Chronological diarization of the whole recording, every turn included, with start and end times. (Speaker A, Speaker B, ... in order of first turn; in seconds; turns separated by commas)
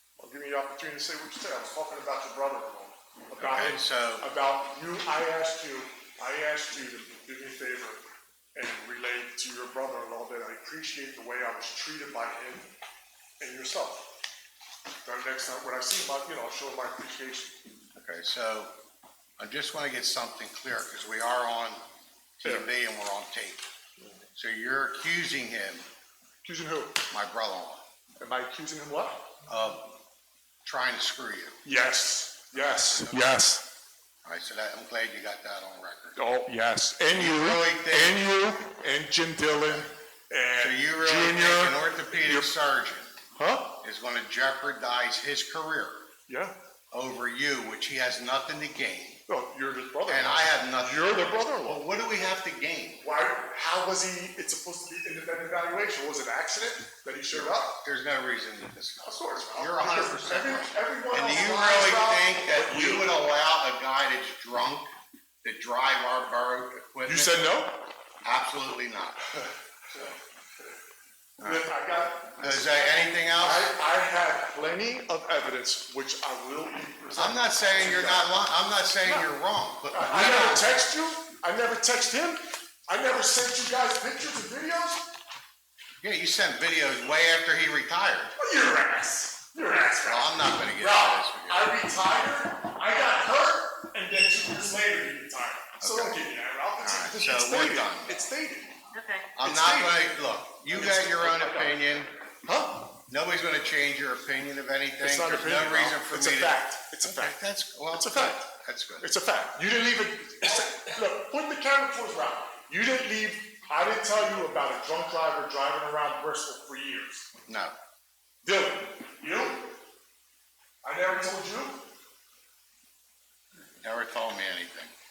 Speaker A: 0.2-8.0, Speaker B: 3.4-4.2, Speaker A: 8.5-12.7, Speaker A: 13.4-14.1, Speaker A: 15.0-17.6, Speaker B: 17.9-18.7, Speaker B: 19.4-21.8, Speaker B: 22.4-23.6, Speaker A: 22.4-22.7, Speaker B: 24.4-25.9, Speaker A: 26.4-27.0, Speaker B: 27.1-27.8, Speaker A: 28.2-29.3, Speaker B: 29.5-29.9, Speaker B: 30.6-31.6, Speaker A: 31.6-33.6, Speaker B: 32.5-33.3, Speaker B: 34.2-36.2, Speaker A: 36.2-42.5, Speaker B: 37.1-38.3, Speaker B: 39.5-39.9, Speaker B: 40.6-43.2, Speaker A: 43.4-43.8, Speaker B: 43.8-46.0, Speaker A: 46.3-46.5, Speaker B: 46.9-49.2, Speaker A: 49.3-51.9, Speaker B: 50.0-53.1, Speaker A: 53.0-57.8, Speaker B: 57.3-64.9, Speaker A: 59.0-63.3, Speaker B: 65.4-67.6, Speaker A: 67.0-67.9, Speaker B: 68.2-69.2, Speaker B: 71.4-71.7, Speaker A: 71.4-78.3, Speaker B: 72.2-73.7, Speaker B: 77.1-80.8, Speaker A: 79.0-79.3, Speaker A: 79.9-85.0, Speaker B: 86.0-88.3, Speaker A: 88.4-98.8, Speaker B: 90.0-91.8, Speaker B: 95.8-96.2, Speaker B: 96.8-98.3, Speaker B: 99.3-102.1, Speaker A: 99.4-103.0, Speaker B: 103.1-109.1, Speaker A: 105.0-107.4, Speaker A: 107.9-117.3, Speaker B: 117.5-117.7, Speaker A: 118.4-119.8, Speaker A: 120.8-121.8, Speaker B: 123.8-124.9